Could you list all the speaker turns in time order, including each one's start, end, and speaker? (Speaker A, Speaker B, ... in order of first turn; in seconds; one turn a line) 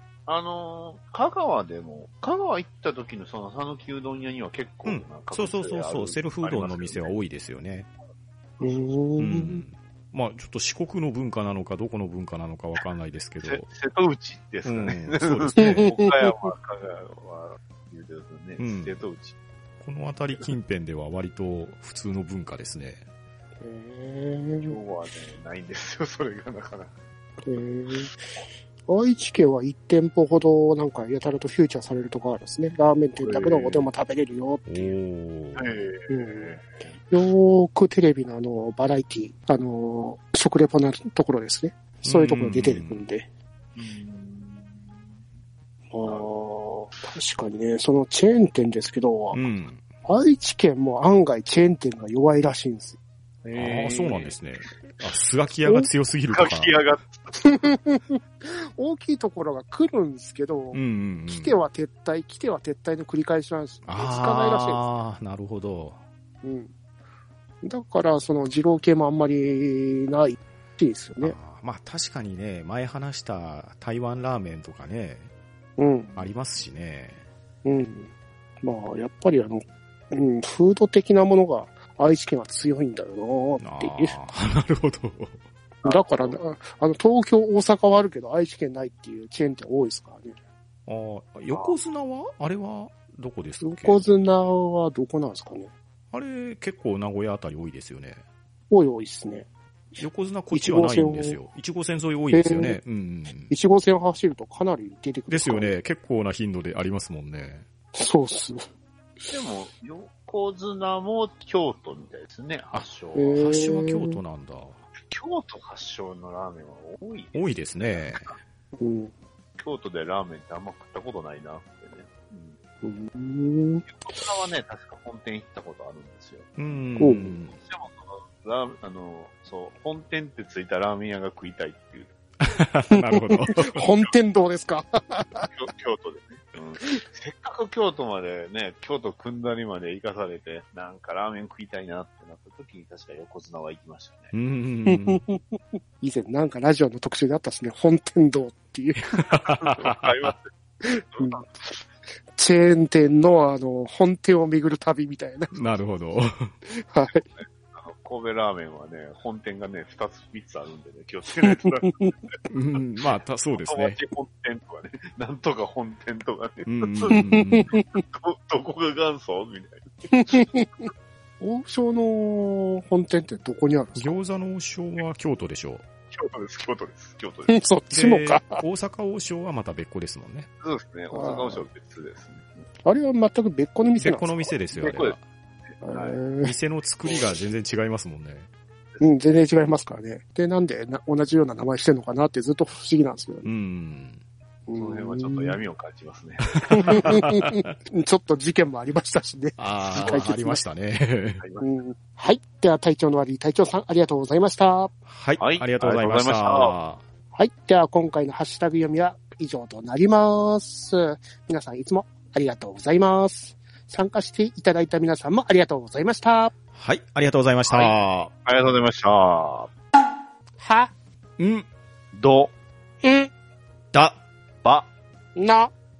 Speaker A: 0.3-7.2
Speaker B: 4.8-7.9
Speaker A: 8.6-9.0
Speaker C: 8.6-9.6
Speaker B: 9.2-13.7
Speaker A: 13.4-19.4
Speaker B: 14.7-15.9
Speaker C: 15.6-16.5
Speaker B: 18.6-19.0
Speaker B: 19.8-23.0
Speaker C: 23.6-24.8
Speaker A: 24.6-26.9
Speaker C: 27.4-28.3
Speaker C: 28.9-35.0
Speaker A: 33.2-33.9
Speaker B: 34.7-35.7
Speaker A: 35.6-37.1
Speaker C: 36.1-36.6
Speaker C: 37.1-43.3
Speaker B: 42.0-43.1
Speaker A: 43.8-45.0
Speaker C: 45.9-49.4
Speaker A: 46.0-46.3
Speaker B: 49.3-49.9
Speaker C: 50.0-53.0
Speaker A: 53.4-54.4
Speaker B: 53.5-56.8
Speaker C: 55.6-55.9
Speaker A: 56.3-57.7
Speaker C: 57.4-64.8
Speaker B: 60.7-61.5
Speaker B: 63.9-66.0
Speaker C: 66.4-66.7
Speaker C: 67.6-71.4
Speaker B: 71.2-75.3
Speaker C: 75.8-76.2
Speaker B: 76.2-77.2
Speaker C: 77.7-78.1
Speaker C: 78.6-84.2
Speaker B: 83.6-85.4
Speaker A: 85.8-86.4
Speaker C: 85.8-90.4
Speaker B: 90.9-94.0
Speaker A: 91.5-91.8
Speaker C: 93.6-95.7
Speaker B: 96.1-98.2
Speaker C: 98.7-101.4
Speaker B: 100.0-103.5
Speaker C: 102.3-102.8
Speaker C: 103.5-105.7
Speaker B: 105.3-107.7
Speaker C: 108.0-108.7
Speaker A: 109.3-113.5
Speaker B: 112.7-114.8
Speaker C: 113.2-114.2
Speaker A: 115.1-118.4
Speaker B: 117.3-118.4
Speaker C: 118.8-119.1
Speaker A: 119.6-122.6
Speaker C: 122.8-123.9
Speaker A: 123.8-132.1
Speaker B: 126.6-127.6
Speaker C: 127.0-127.3
Speaker B: 132.4-133.8
Speaker C: 132.9-135.5
Speaker A: 135.4-144.3
Speaker B: 144.3-145.2
Speaker C: 144.9-149.2
Speaker B: 149.2-150.1
Speaker A: 149.4-150.5
Speaker C: 150.8-151.4
Speaker A: 151.1-151.5
Speaker C: 152.3-155.6
Speaker B: 155.5-156.5
Speaker C: 156.7-157.2
Speaker A: 157.1-162.3
Speaker C: 161.4-162.1
Speaker B: 162.5-164.0
Speaker A: 163.6-170.5
Speaker B: 166.7-167.8
Speaker C: 167.2-168.0
Speaker C: 170.1-170.9
Speaker C: 171.4-174.2
Speaker B: 174.0-175.8
Speaker A: 176.1-177.6
Speaker C: 177.5-178.6
Speaker B: 177.9-180.5
Speaker A: 180.6-182.7
Speaker C: 181.1-181.7
Speaker C: 182.8-184.4
Speaker B: 184.0-185.2
Speaker A: 184.7-186.2
Speaker C: 185.8-186.6
Speaker B: 186.4-188.5
Speaker A: 188.9-189.4
Speaker C: 189.0-193.5
Speaker B: 193.4-194.2
Speaker C: 194.7-195.6
Speaker A: 194.8-197.1
Speaker B: 196.6-197.7
Speaker C: 196.7-200.7
Speaker B: 199.6-201.4
Speaker A: 200.0-200.3
Speaker A: 201.4-201.7
Speaker C: 201.6-204.9
Speaker B: 205.1-207.1
Speaker A: 205.4-206.8
Speaker C: 207.3-216.5
Speaker B: 216.7-218.3
Speaker A: 217.7-219.7
Speaker C: 220.6-220.9
Speaker B: 221.4-221.7
Speaker A: 222.1-222.5
Speaker C: 223.0-223.3
Speaker B: 223.9-224.2
Speaker C: 225.3-225.7